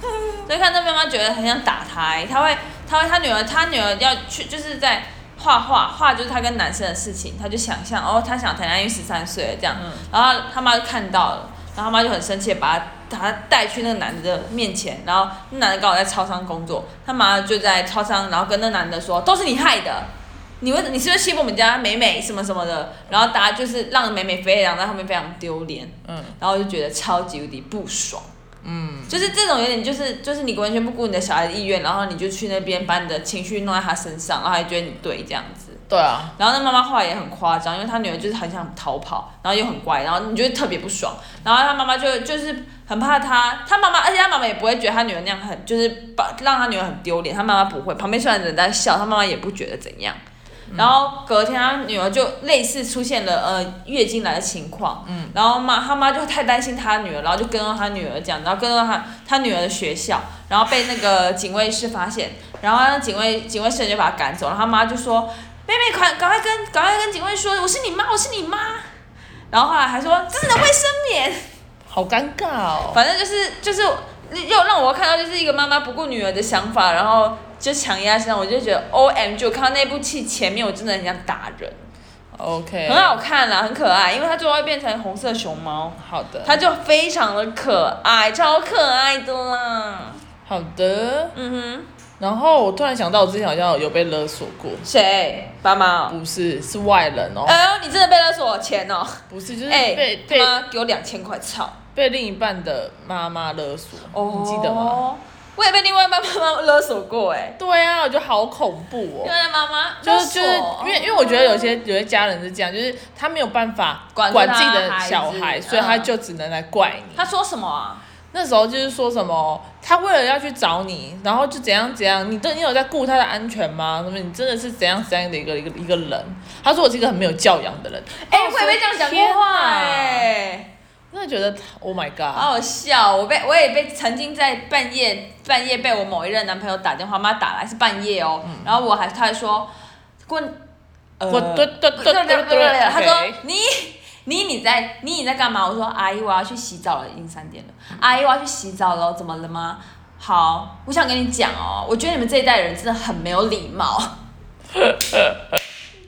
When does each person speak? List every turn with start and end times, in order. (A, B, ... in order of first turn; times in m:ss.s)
0:00.5-0:28.3 A
0:09.8-0:10.1 B
0:26.1-0:26.4 B
0:28.6-0:29.3 B
0:29.1-0:35.8 A
0:35.9-0:36.3 B
0:36.4-0:50.2 A
0:50.7-0:51.0 B
0:50.8-1:08.9 A
0:55.0-0:55.4 B
1:09.5-1:11.4 A
1:11.9-1:13.0 B
1:12.9-1:21.9 A
1:22.3-1:23.2 B
1:22.9-1:30.2 A
1:26.0-1:26.6 B
1:30.5-1:31.3 B
1:31.3-1:31.9 A
1:32.2-1:34.8 B
1:34.8-1:36.2 A
1:36.1-1:37.6 B
1:37.5-1:41.8 A
1:39.3-1:40.5 B
1:42.0-1:45.0 B
1:44.1-1:47.6 A
1:47.6-1:49.3 B
1:49.2-1:51.8 A
1:50.0-1:57.3 B
1:54.2-1:56.1 A
1:57.2-1:58.0 A
1:58.3-2:10.3 B
2:08.2-2:10.7 A
2:11.1-2:12.5 B
2:12.3-2:19.7 A
2:18.4-2:18.7 B
2:20.2-2:20.6 A
2:21.2-2:34.1 A
2:21.3-2:23.4 B